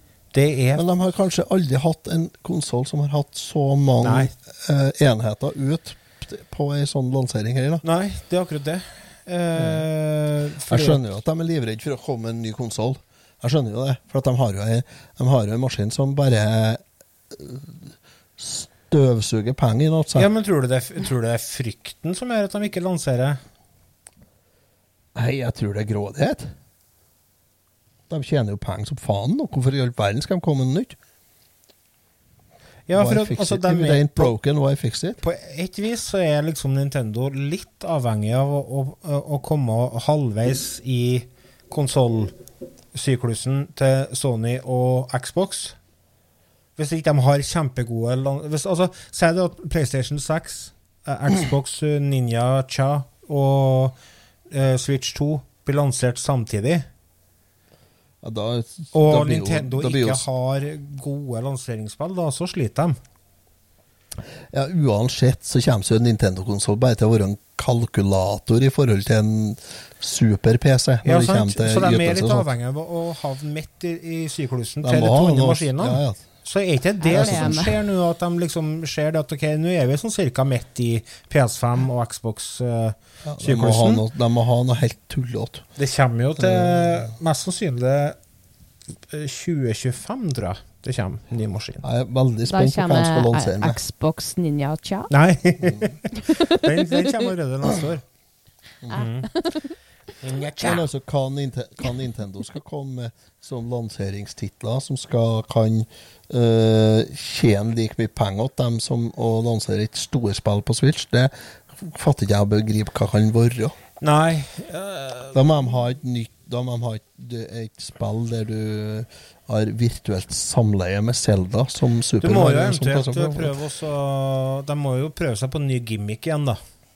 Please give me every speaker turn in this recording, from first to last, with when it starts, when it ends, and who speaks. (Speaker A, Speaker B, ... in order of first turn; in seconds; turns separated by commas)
Speaker A: 0.3-0.8, Speaker B: 0.7-7.8, Speaker A: 4.0-4.3, Speaker A: 7.8-11.0, Speaker B: 9.6-9.8, Speaker B: 10.7-20.3, Speaker A: 20.1-23.4, Speaker B: 25.1-26.5, Speaker B: 28.1-31.0, Speaker A: 32.9-34.3, Speaker B: 33.0-35.2, Speaker A: 35.2-42.3, Speaker A: 42.9-45.8, Speaker A: 46.8-53.9, Speaker A: 54.5-56.9, Speaker B: 58.2-60.2, Speaker A: 58.9-63.0, Speaker B: 64.5-72.5, Speaker A: 71.0-84.0, Speaker B: 74.8-76.2, Speaker C: 77.0-77.7, Speaker B: 77.1-77.6, Speaker B: 83.2-85.7, Speaker A: 85.8-88.2, Speaker B: 86.4-87.1, Speaker A: 89.1-91.8, Speaker B: 91.8-93.8, Speaker C: 92.5-95.1, Speaker A: 95.1-98.0, Speaker B: 95.6-95.9, Speaker C: 96.3-96.6, Speaker A: 98.9-99.3, Speaker C: 98.9-99.7, Speaker A: 100.2-100.9, Speaker B: 100.6-113.8, Speaker A: 114.0-115.4, Speaker B: 115.3-123.5, Speaker A: 122.2-126.6